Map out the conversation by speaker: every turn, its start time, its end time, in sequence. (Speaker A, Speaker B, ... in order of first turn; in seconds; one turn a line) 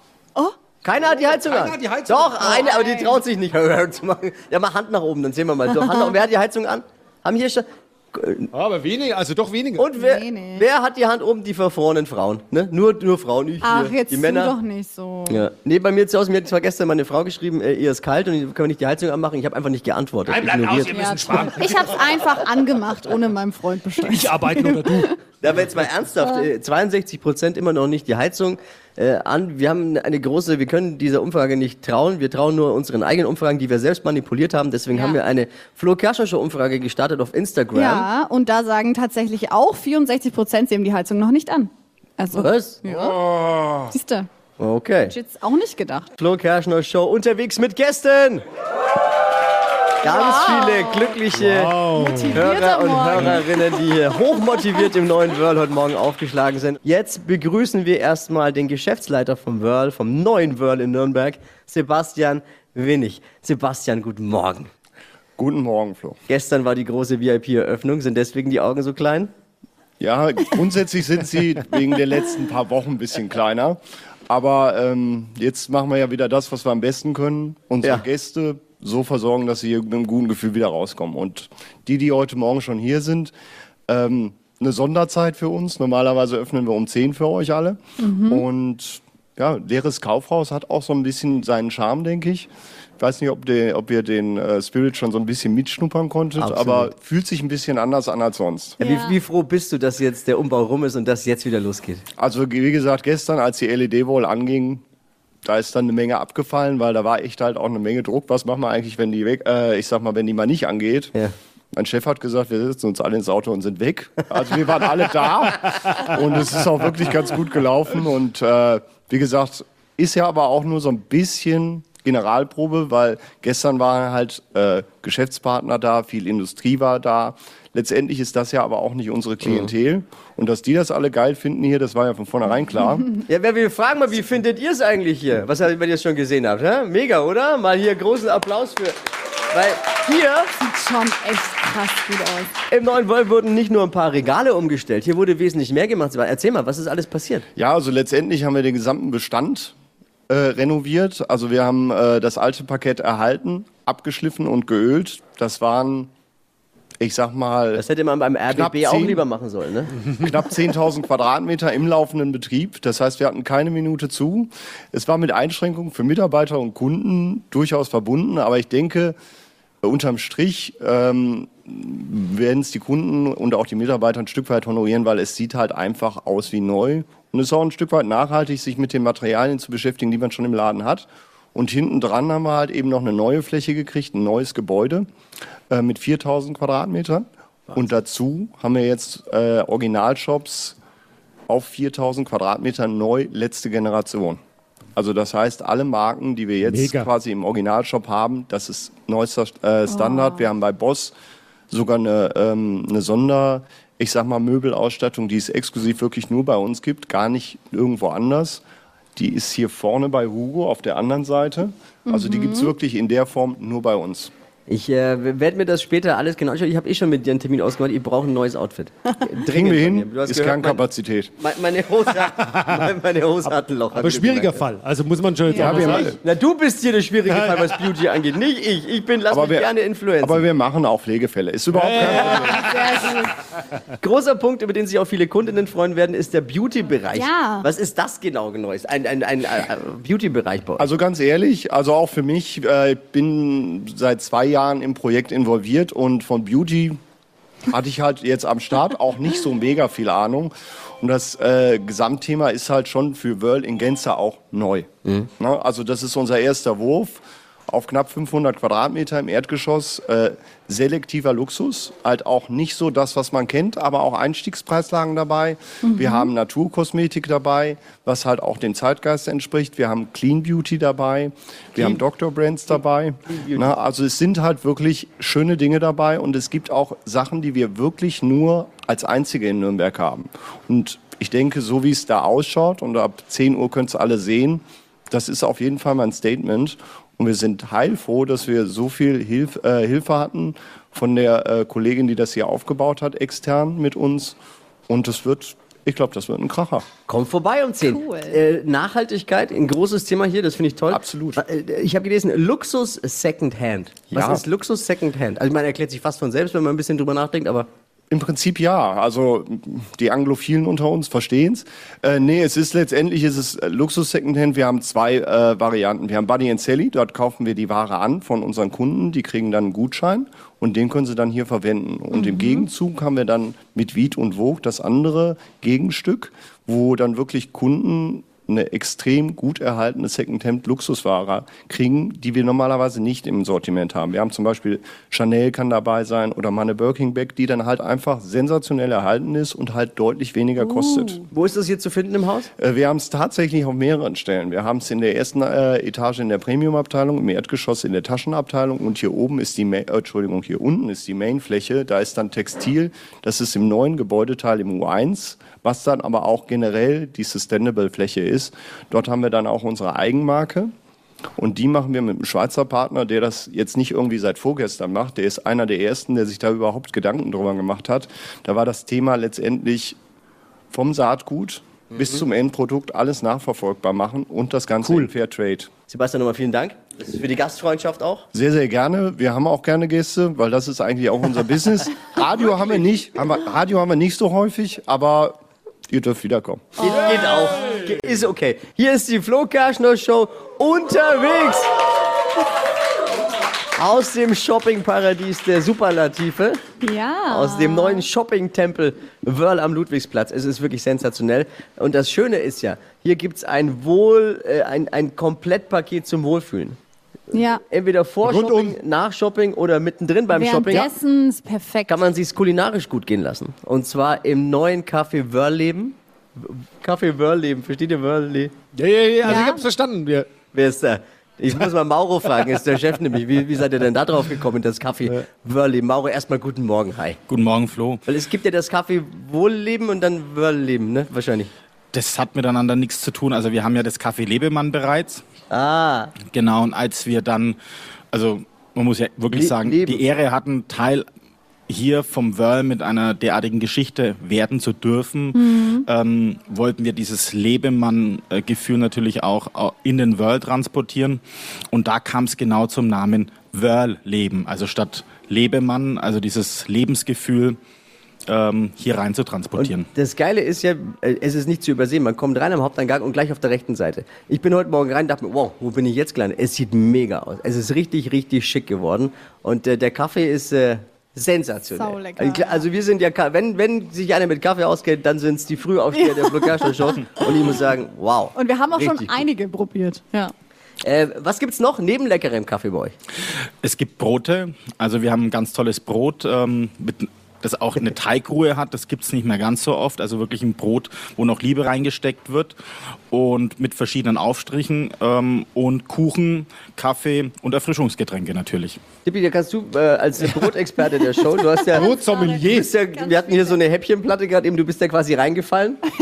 Speaker A: 0.8-8.5
Speaker B: 1.4-3.0
Speaker B: 8.5-9.9
Speaker A: 9.8-14.5
Speaker C: 9.9-10.6
Speaker C: 13.6-15.4
Speaker A: 15.3-21.5
Speaker B: 20.2-22.2
Speaker C: 20.9-25.1
Speaker B: 24.0-25.6
Speaker A: 25.4-38.1
Speaker C: 34.9-35.2
Speaker C: 37.7-43.2
Speaker A: 42.3-43.0
Speaker B: 42.9-43.9
Speaker C: 43.9-44.3
Speaker A: 44.6-45.1
Speaker C: 45.0-46.1
Speaker A: 46.1-48.4
Speaker A: 50.0-64.7
Speaker C: 50.0-51.1
Speaker B: 51.3-52.5
Speaker C: 51.9-53.7
Speaker B: 53.1-53.4
Speaker D: 65.4-66.2
Speaker A: 66.3-69.3
Speaker D: 70.0-83.3
Speaker D: 83.9-98.8
Speaker C: 88.0-88.4
Speaker A: 96.4-96.9
Speaker C: 98.8-99.2
Speaker A: 98.8-102.0
Speaker D: 102.2-104.8
Speaker D: 105.4-111.1
Speaker D: 111.7-133.2
Speaker A: 129.4-129.7
Speaker A: 133.2-139.0
Speaker A: 139.5-140.5
Speaker C: 140.6-142.5
Speaker A: 142.7-147.4
Speaker D: 147.6-149.7
Speaker D: 150.3-156.1
Speaker D: 157.0-157.8
Speaker A: 157.7-160.0
Speaker D: 158.5-159.2
Speaker D: 160.2-169.2
Speaker D: 169.8-185.1
Speaker D: 185.7-190.8
Speaker D: 191.5-194.4
Speaker D: 194.9-201.1
Speaker B: 196.6-197.1
Speaker C: 199.9-200.5
Speaker D: 201.7-208.6
Speaker D: 209.2-214.3
Speaker C: 212.1-212.7
Speaker A: 214.7-220.8
Speaker D: 219.5-221.3
Speaker A: 221.4-224.6
Speaker B: 222.3-222.9
Speaker B: 223.9-226.2
Speaker C: 225.5-225.9
Speaker A: 225.5-230.4
Speaker D: 225.6-226.1
Speaker B: 227.3-227.9
Speaker D: 229.3-229.7
Speaker D: 230.2-232.5
Speaker B: 231.7-232.9
Speaker C: 232.1-233.3
Speaker A: 234.0-240.9
Speaker C: 237.1-237.7
Speaker D: 240.8-247.0
Speaker D: 247.7-294.4
Speaker C: 265.8-266.3
Speaker A: 271.8-272.0
Speaker A: 273.3-273.7
Speaker D: 294.9-296.9
Speaker A: 297.1-307.7
Speaker C: 297.9-298.4
Speaker D: 300.9-301.4
Speaker D: 304.1-304.4
Speaker D: 308.1-341.2
Speaker C: 322.1-322.6
Speaker C: 340.6-341.2
Speaker A: 341.3-342.5
Speaker D: 342.6-360.7
Speaker D: 361.4-370.0
Speaker D: 370.7-375.7
Speaker A: 375.9-378.2
Speaker D: 378.3-385.4
Speaker D: 385.9-386.9
Speaker A: 386.8-391.7
Speaker B: 386.9-387.9
Speaker A: 393.8-396.6
Speaker C: 396.8-398.1
Speaker A: 397.3-406.8
Speaker C: 407.3-407.6
Speaker A: 407.7-410.9
Speaker B: 408.2-408.8
Speaker C: 410.3-412.0
Speaker A: 411.9-418.5
Speaker B: 418.7-420.3
Speaker C: 419.2-419.6
Speaker A: 420.5-427.2
Speaker E: 427.3-428.0
Speaker A: 428.1-431.5
Speaker E: 431.9-435.2
Speaker A: 435.5-436.1
Speaker E: 436.2-437.6
Speaker E: 438.1-441.1
Speaker A: 439.3-440.0
Speaker E: 441.7-457.6
Speaker C: 445.3-445.8
Speaker E: 458.3-459.9
Speaker A: 459.6-479.2
Speaker C: 471.7-472.6
Speaker C: 476.0-476.7
Speaker C: 478.3-480.3
Speaker A: 480.8-482.9
Speaker E: 483.6-492.6
Speaker E: 493.1-498.8
Speaker A: 499.0-505.8
Speaker C: 501.5-503.6
Speaker B: 501.7-502.7